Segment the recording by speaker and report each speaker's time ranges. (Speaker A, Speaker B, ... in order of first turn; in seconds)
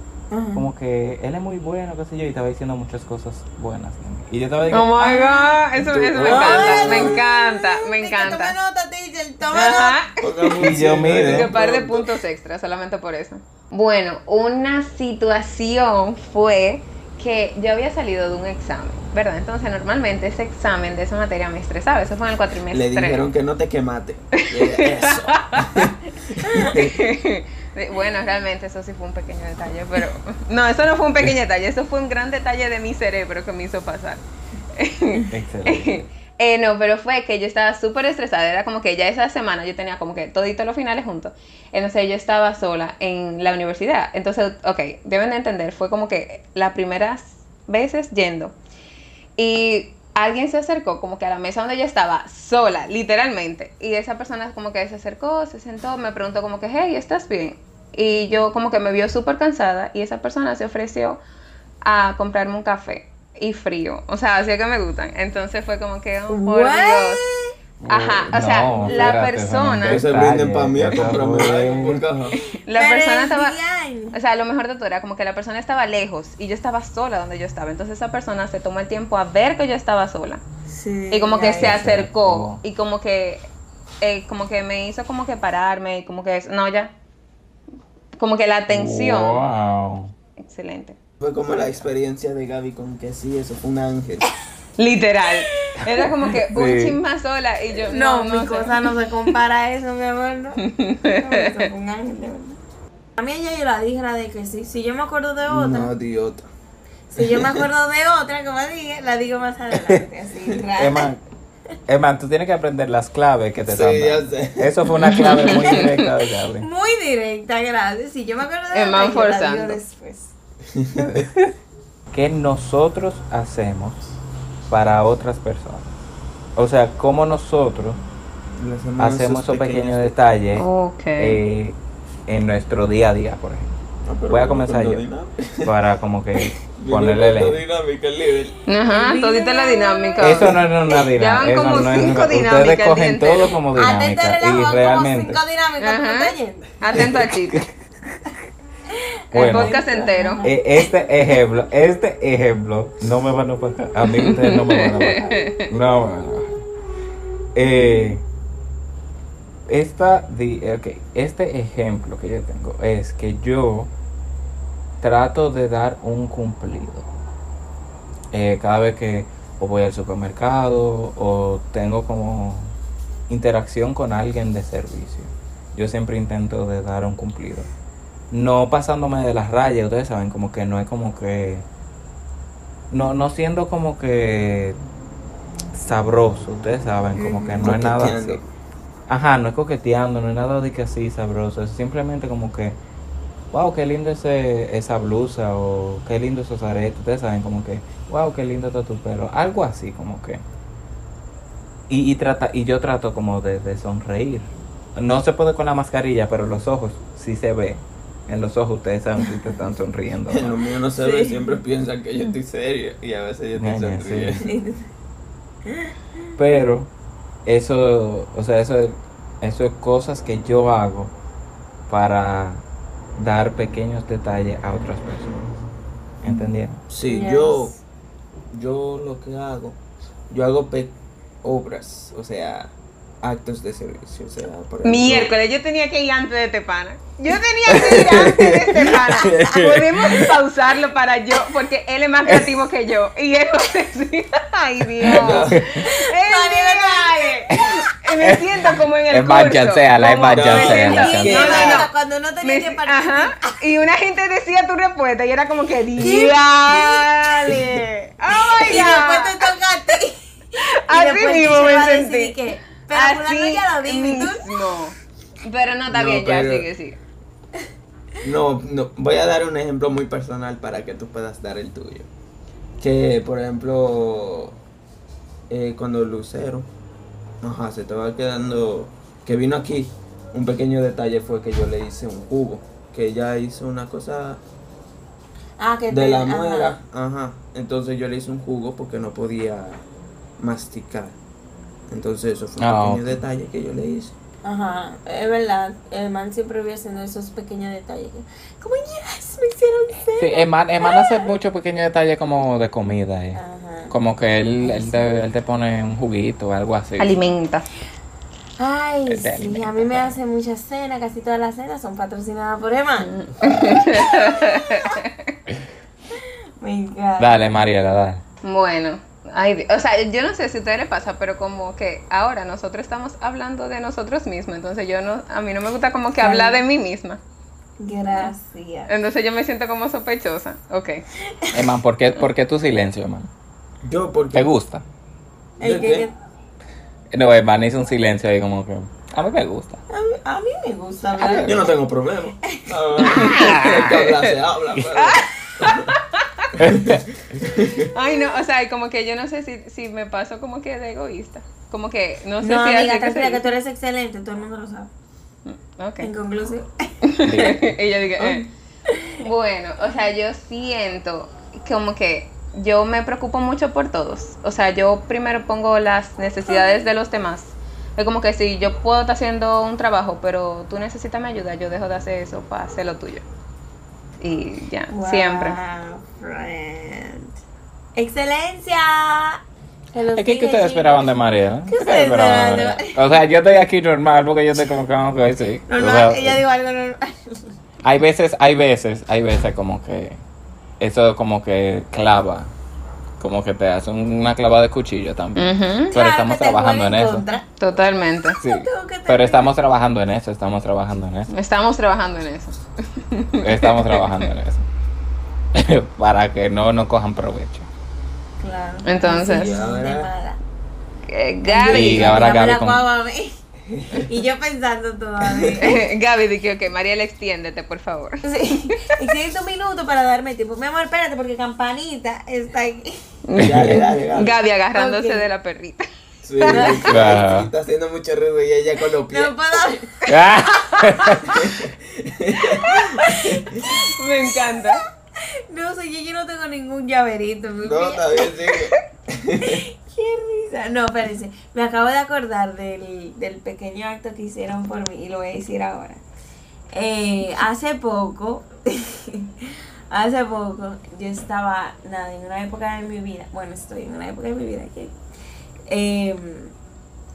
Speaker A: 0.3-0.6, 5.0-5.6, 6.2-10.0, 66.3-67.5, 72.7-74.2, 80.7-81.8, 97.9-102.6, 103.2-105.9, 107.1-111.1, 116.6-120.3, 138.8-140.6, 143.7-146.8, 148.9-150.9, 187.2-187.8, 210.9-211.5, 214.4-214.9, 227.1-227.8, 245.7-247.7, 250.2-253.6, 256.0-264.7, 285.6-286.8, 294.4-301.3, 303.3-303.9, 304.6-305.0, 308.6-314.9, 316.6-317.4, 326.2-326.6, 327.8-328.9, 331.3-331.7, 335.6-336.1, 339.9-341.7, 342.5-343.1, 352.4-354.9, 356.0-356.7, 358.2-359.2, 366.4-366.8, 374.9-377.3, 377.9-379.4, 379.9-383.1, 385.7-387.4, 395.9-397.4, 398.4-399.5, 408.4-410.4, 411.4-413.4, 414.0-415.8, 418.2-423.0, 424.7-425.3, 426.5-427.1, 429.1-430.0, 432.5-434.8, 435.5-438.2, 439.4-446.0, 446.7-454.9, 455.7-456.5
Speaker B: 0.5-5.0, 10.6-11.5, 35.3-36.0, 67.8-72.0, 81.5-82.6, 88.7-90.1, 95.8-97.0, 110.7-111.2, 111.9-116.7, 122.1-124.0, 124.7-125.9, 126.5-128.0, 129.0-133.8, 134.3-135.0, 135.6-137.6, 140.2-145.4, 146.9-147.7, 149.3-149.8, 150.4-156.6, 157.5-158.2, 159.7-163.9, 165.0-167.1, 168.3-172.7, 173.3-177.7, 178.3-181.7, 182.9-184.8, 185.7-188.4, 189.1-192.8, 193.5-200.4, 201.9-210.6, 213.6-214.4, 216.4-216.9, 217.4-221.1, 221.9-222.6, 223.2-225.4, 226.2-226.8, 239.2-240.2, 245.0-245.8, 248.2-251.6, 292.6-293.2, 300.1-307.3, 309.1-310.1, 317.2-318.2, 331.5-333.3, 334.3-334.8, 337.1-339.8, 343.1-344.0, 346.6-347.0, 357.2-357.7, 380.1-386.4, 387.8-390.2, 390.8-392.5, 393.2-397.2, 398.4-401.3, 403.4-404.7, 405.5-407.7, 411.6-412.9, 423.4-423.8, 426.9-427.5, 430.1-431.4
Speaker C: 4.7-8.5, 9.5-10.6, 11.2-23.2, 24.4-26.0, 26.5-34.2, 34.7-48.5, 49.4-61.2, 61.8-67.2, 67.8-70.1, 72.4-73.6, 74.1-80.4, 81.1-83.5, 84.0-86.9, 88.2-89.4, 90.4-91.0, 94.8-98.8, 100.6-101.7, 115.0-116.1, 118.7-119.8, 130.5-131.4, 138.7-143.6, 145.8-147.6, 149.3-150.4, 154.1-155.6, 234.8-251.9, 252.4-259.5, 260.6-267.0, 307.0-307.7, 313.0-315.3, 318.4-327.2, 328.9-331.0, 343.2-344.3, 344.8-346.5, 347.8-353.4, 355.4-356.1, 357.1-358.4, 359.2-373.2, 374.2-375.6, 395.4-395.9, 397.6-398.4, 401.3-404.2, 408.8-409.6, 411.1-412.4, 415.6-418.8, 423.3-426.9, 433.7-434.8
Speaker D: 5.8-7.2, 10.2-12.2, 22.7-26.9, 69.8-72.3, 91.2-94.3, 105.5-106.5, 107.2-107.6, 113.7-114.8, 120.7-121.2, 128.6-130.2, 134.0-135.8, 136.8-138.6, 187.6-188.4, 210.3-214.4, 226.9-227.7, 228.5-229.8, 230.3-235.3, 237.7-240.3, 245.0-245.6, 250.3-251.9, 265.9-266.7, 268.2-272.1, 272.8-274.6, 275.5-276.7, 277.4-284.4, 285.9-289.8, 290.4-291.2, 291.9-294.1, 333.8-334.5, 335.6-336.1, 341.2-345.9, 346.6-347.9, 409.0-410.1, 413.7-414.0, 415.2-415.8, 423.4-424.4, 426.2-429.8, 431.3-433.6, 437.6-439.6